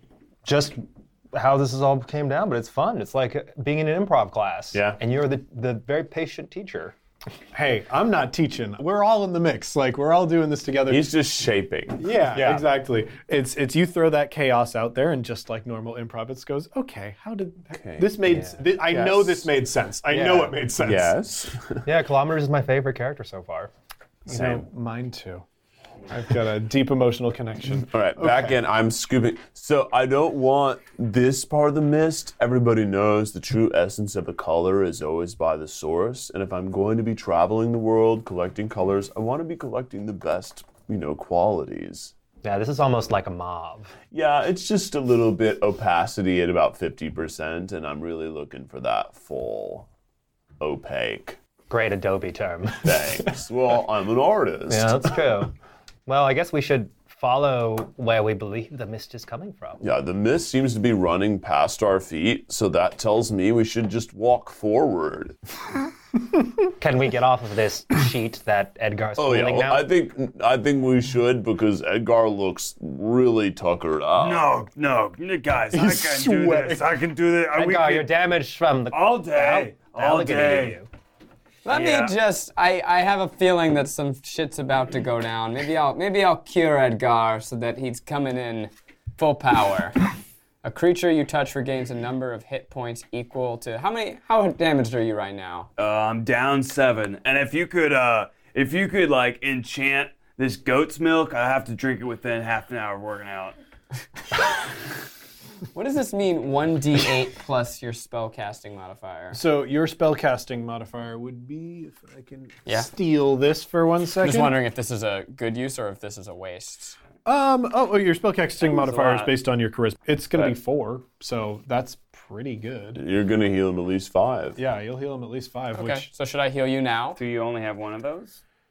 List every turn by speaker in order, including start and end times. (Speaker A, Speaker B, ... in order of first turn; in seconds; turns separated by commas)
Speaker A: 0.4-0.8, Speaker A: 1.3-7.0, Speaker B: 4.7-5.0, Speaker C: 7.5-11.1, Speaker B: 10.9-12.6, Speaker C: 12.0-21.2, Speaker B: 17.7-18.2, Speaker A: 18.3-18.6, Speaker B: 18.8-19.5, Speaker A: 20.1-20.6, Speaker B: 20.8-21.9, Speaker A: 21.8-23.7, Speaker C: 24.3-25.4, Speaker B: 24.3-24.6, Speaker C: 26.1-28.6, Speaker B: 27.8-42.1, Speaker A: 42.4-43.9, Speaker B: 44.1-49.9, Speaker B: 50.6-51.4, Speaker A: 51.7-53.4, Speaker B: 52.8-55.1, Speaker A: 54.7-55.5, Speaker A: 56.0-59.8, Speaker B: 59.8-65.3, Speaker A: 66.8-69.8, Speaker B: 69.2-74.5, Speaker D: 74.2-78.1, Speaker C: 75.7-76.8, Speaker A: 77.5-80.9, Speaker D: 78.9-80.8, Speaker E: 81.6-90.0, Speaker D: 81.7-82.1, Speaker E: 90.6-95.7, Speaker D: 95.8-103.6, Speaker E: 105.7-109.4, Speaker C: 109.3-114.6, Speaker E: 114.2-117.0, Speaker C: 117.2-123.0, Speaker D: 118.6-119.3, Speaker B: 123.0-124.6, Speaker C: 124.6-126.1, Speaker E: 125.8-127.2, Speaker D: 127.2-128.4